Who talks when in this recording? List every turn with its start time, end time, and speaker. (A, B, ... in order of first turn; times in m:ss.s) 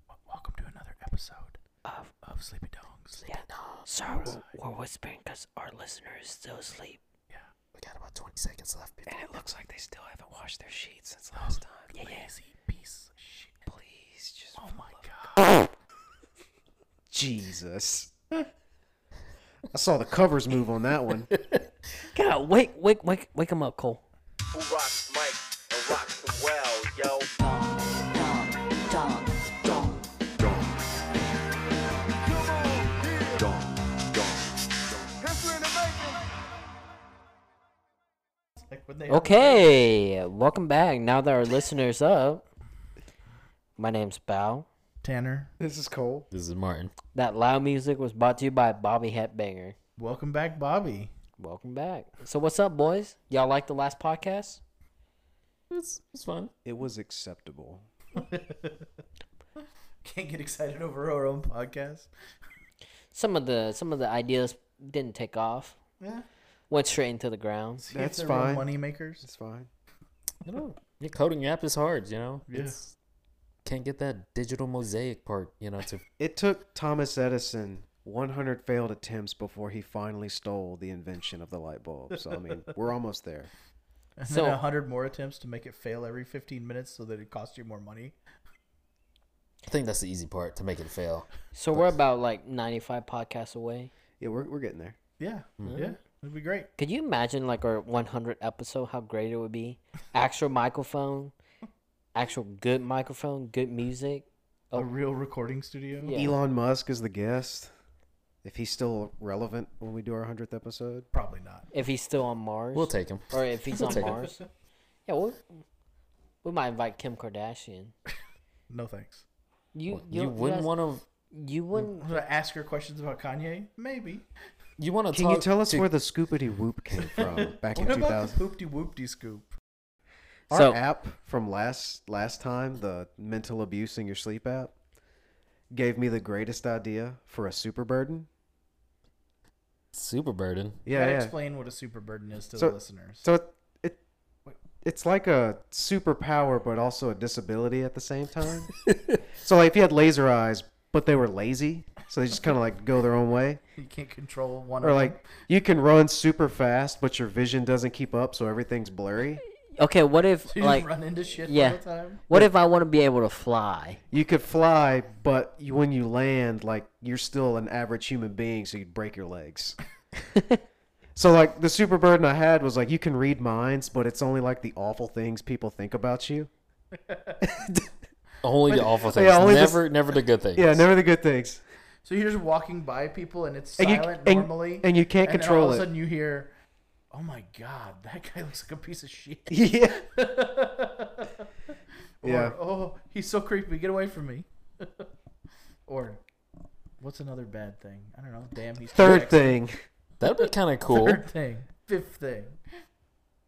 0:00.3-0:01.6 A
0:01.8-0:02.1 B
0:02.2-0:03.3 A
0:03.3-0:07.0 B
0:03.5-0:03.8 C
0:04.1-0:04.4 A
0:07.7-0:09.2 C
0:09.0-0:11.9 D
0:11.4-0:13.6 A
0:11.9-0:12.2 B
0:13.7-0:14.6 D
0:14.6-0:15.4 A
0:17.1-0:18.1 D
0:19.7-0:21.3 D
0:21.3-0:21.6 C
0:22.1-0:24.0 B
0:24.5-0:27.3 E
0:27.4-0:28.2 B
0:30.4-0:30.7 E
0:32.2-0:36.2 E
0:38.7-0:39.7 A
0:39.1-0:42.4 B
0:43.8-0:44.7 B
0:45.0-0:45.5 A
0:45.6-0:46.3 D
0:46.3-0:46.9 C
0:47.1-0:49.7 B
0:50.0-0:51.1 A
0:51.4-0:54.6 B
0:55.7-0:56.5 C
0:56.6-0:57.8 D
0:58.1-0:58.9 A
1:00.0-1:02.1 A
1:03.1-1:05.8 B
1:06.0-1:06.2 A
1:06.7-1:07.8 B
1:07.8-1:09.2 A
1:07.9-1:08.6 D
1:09.2-1:09.7 D
1:10.4-1:12.9 C
1:12.5-1:12.8 A
1:13.6-1:16.0 C
1:16.2-1:23.5 D
1:24.2-1:28.1 A
1:24.2-1:24.6 B
1:29.7-1:31.9 C
1:31.5-1:33.9 B
1:34.2-1:35.0 D
1:35.2-1:36.7 A
1:35.6-1:35.9 C
1:36.8-1:41.3 B
1:42.1-1:44.9 B
1:44.7-1:46.2 A
1:46.0-1:46.4 B
1:46.1-1:47.7 D
1:48.4-1:51.1 D
1:51.1-1:51.7 A
1:51.7-1:54.4 B
1:52.7-1:54.2 C
1:53.8-1:54.4 A
1:55.1-1:55.4 B
1:56.4-1:57.9 B
1:58.7-1:59.2 A
1:59.7-2:00.7 B
1:59.9-2:01.0 C
2:01.2-2:02.2 B
2:01.7-2:04.2 A
2:04.8-2:05.9 C
2:05.1-2:08.4 D
2:07.0-2:09.5 A
2:10.5-2:14.7 D
2:10.5-2:10.8 B
2:15.7-2:18.3 D
2:19.9-2:20.8 C
2:20.8-2:21.3 D
2:20.9-2:23.3 A
2:22.6-2:24.0 D
2:24.8-2:28.7 D
2:28.8-2:29.2 C
2:29.4-2:33.6 D
2:33.7-2:35.2 A
2:34.8-2:39.4 D
2:39.8-2:40.9 B
2:40.5-2:42.2 A
2:41.4-2:44.0 B
2:44.1-2:49.8 D
2:50.3-2:50.6 B
2:51.1-2:56.5 D
2:56.9-2:57.4 A
2:57.4-2:57.9 D
2:58.4-3:00.8 C
2:58.7-2:59.9 D
3:00.5-3:01.6 D
3:02.0-3:06.5 A
3:03.8-3:05.9 D
3:07.1-3:11.4 A
3:09.5-3:10.0 D
3:12.2-3:15.0 A
3:12.2-3:12.6 D
3:15.9-3:16.2 A
3:17.0-3:19.6 A
3:18.9-3:19.8 D
3:20.2-3:21.2 C
3:20.3-3:22.6 A